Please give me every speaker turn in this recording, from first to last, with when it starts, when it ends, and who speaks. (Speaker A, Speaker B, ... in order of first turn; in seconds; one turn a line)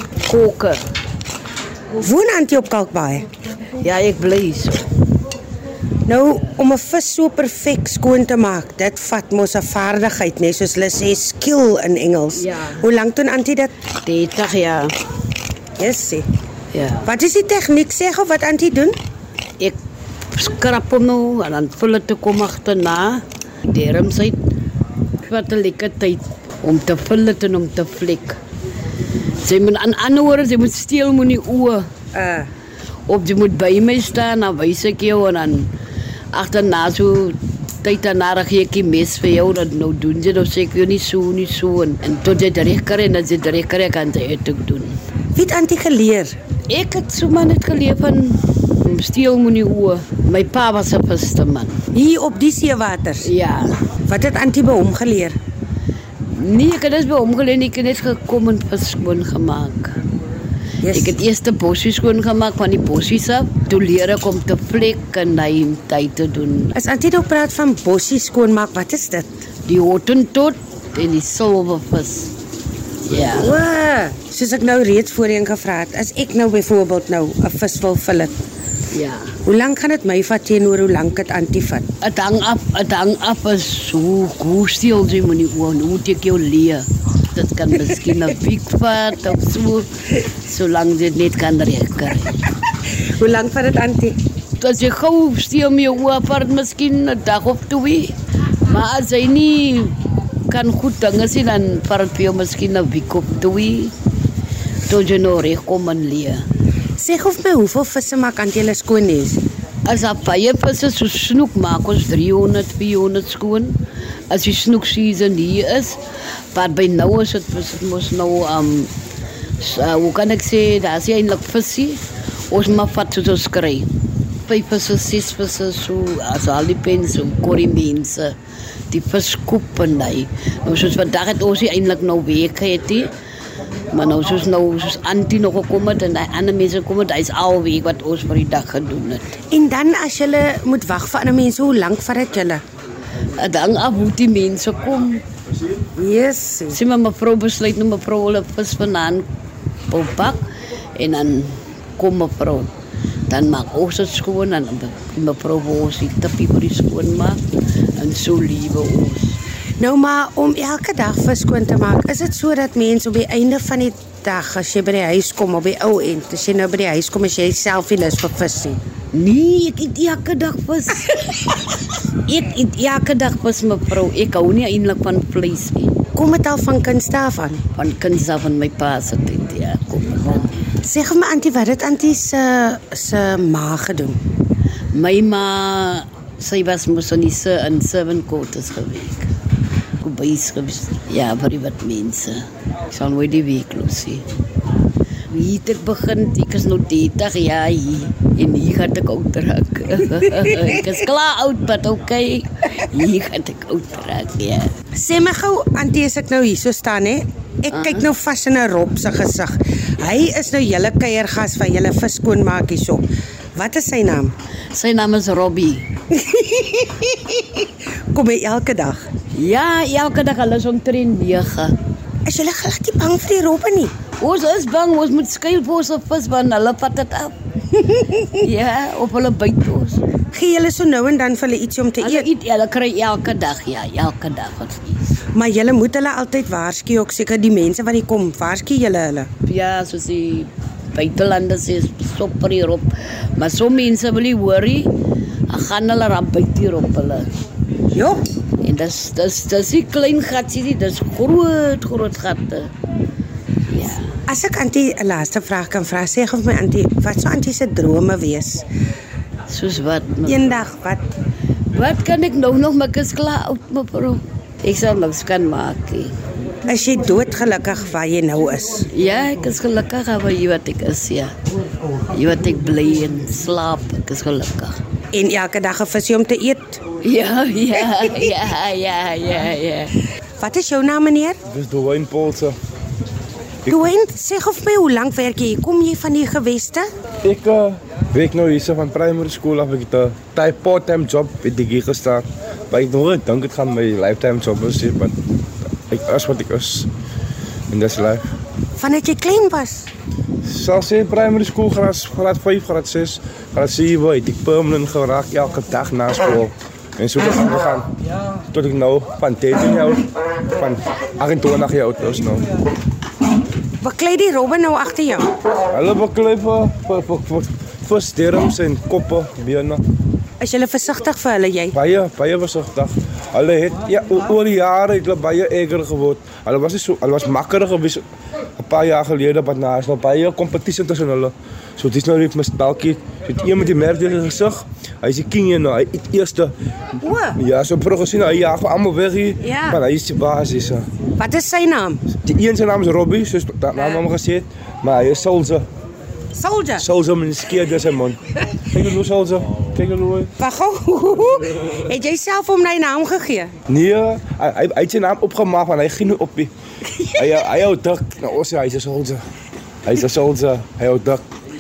Speaker A: 0.2-0.8
Speaker B: 1.9-3.2
Speaker A: 3.8-4.8
Speaker B: 6.0-13.7
Speaker A: 12.4-12.8
Speaker A: 14.0-14.9
Speaker B: 15.8-16.3
Speaker A: 16.7-17.1
Speaker B: 17.0-18.9
Speaker A: 20.3-24.4
Speaker A: 25.2-28.4
Speaker A: 29.4-31.9
Speaker B: 32.1-32.5
Speaker A: 33.1-35.7
Speaker A: 36.3-45.0
Speaker B: 45.3-46.3
Speaker A: 46.7-51.8
Speaker B: 51.9-53.3
Speaker A: 53.2-53.8
Speaker B: 54.1-55.4
Speaker A: 56.3-60.0
Speaker B: 60.8-61.2
Speaker A: 60.9-66.7
Speaker B: 66.7-69.3
Speaker A: 69.6-72.3
Speaker A: 73.0-73.5
Speaker B: 73.4-78.3
Speaker A: 78.9-79.3
Speaker B: 79.4-81.8
Speaker A: 82.0-92.5
Speaker B: 92.9-94.2
Speaker A: 94.6-98.1
Speaker A: 98.6-100.0
Speaker A: 100.5-103.9
Speaker A: 104.9-106.4
Speaker B: 107.0-109.4
Speaker A: 109.8-116.0
Speaker A: 116.5-118.9
Speaker A: 119.6-123.9
Speaker A: 124.5-128.4
Speaker A: 128.9-133.1
Speaker A: 133.9-139.4
Speaker B: 139.5-142.6
Speaker A: 143.3-145.2
Speaker B: 146.0-146.8
Speaker A: 146.7-149.3
Speaker A: 149.9-152.7
Speaker A: 153.3-157.4
Speaker A: 158.0-159.4
Speaker B: 159.8-168.8
Speaker A: 169.1-171.5
Speaker A: 172.3-176.0
Speaker B: 176.2-177.6
Speaker A: 177.8-180.5
Speaker B: 180.8-184.2
Speaker A: 184.9-189.3
Speaker A: 190.0-194.2
Speaker A: 195.3-204.7
Speaker B: 204.9-214.3
Speaker A: 207.7-208.1
Speaker A: 214.7-215.9
Speaker B: 216.1-219.1
Speaker A: 219.3-221.7
Speaker B: 222.3-223.9
Speaker A: 224.2-227.3
Speaker B: 227.8-228.3
Speaker A: 228.4-230.0
Speaker B: 230.3-232.3
Speaker A: 232.0-234.9
Speaker B: 235.3-239.3
Speaker A: 239.5-244.9
Speaker A: 245.5-247.3
Speaker B: 247.9-248.2
Speaker A: 248.6-252.7
Speaker A: 253.7-254.2
Speaker B: 254.3-258.6
Speaker A: 259.5-260.6
Speaker B: 260.2-261.0
Speaker A: 261.7-266.1
Speaker B: 266.6-268.9
Speaker A: 268.9-271.3
Speaker A: 272.1-274.8
Speaker B: 275.1-276.8
Speaker A: 277.0-279.9
Speaker B: 277.9-278.2
Speaker B: 280.4-281.4
Speaker C: 281.5-282.6
Speaker B: 283.7-286.9
Speaker C: 287.2-295.1
Speaker C: 295.9-296.9
Speaker C: 297.7-298.2
Speaker B: 298.8-299.9
Speaker C: 300.4-307.9
Speaker C: 308.5-312.4
Speaker B: 313.8-315.3
Speaker C: 315.7-319.8
Speaker B: 320.4-321.8
Speaker C: 321.7-328.0
Speaker C: 328.6-336.5
Speaker B: 337.0-337.4
Speaker C: 337.4-340.9
Speaker B: 339.4-339.8
Speaker B: 341.2-342.0
Speaker C: 342.2-345.6
Speaker B: 346.3-346.8
Speaker C: 346.8-350.3
Speaker B: 350.4-353.5
Speaker C: 353.7-356.5
Speaker B: 357.0-357.4
Speaker C: 357.1-359.2
Speaker C: 359.9-361.2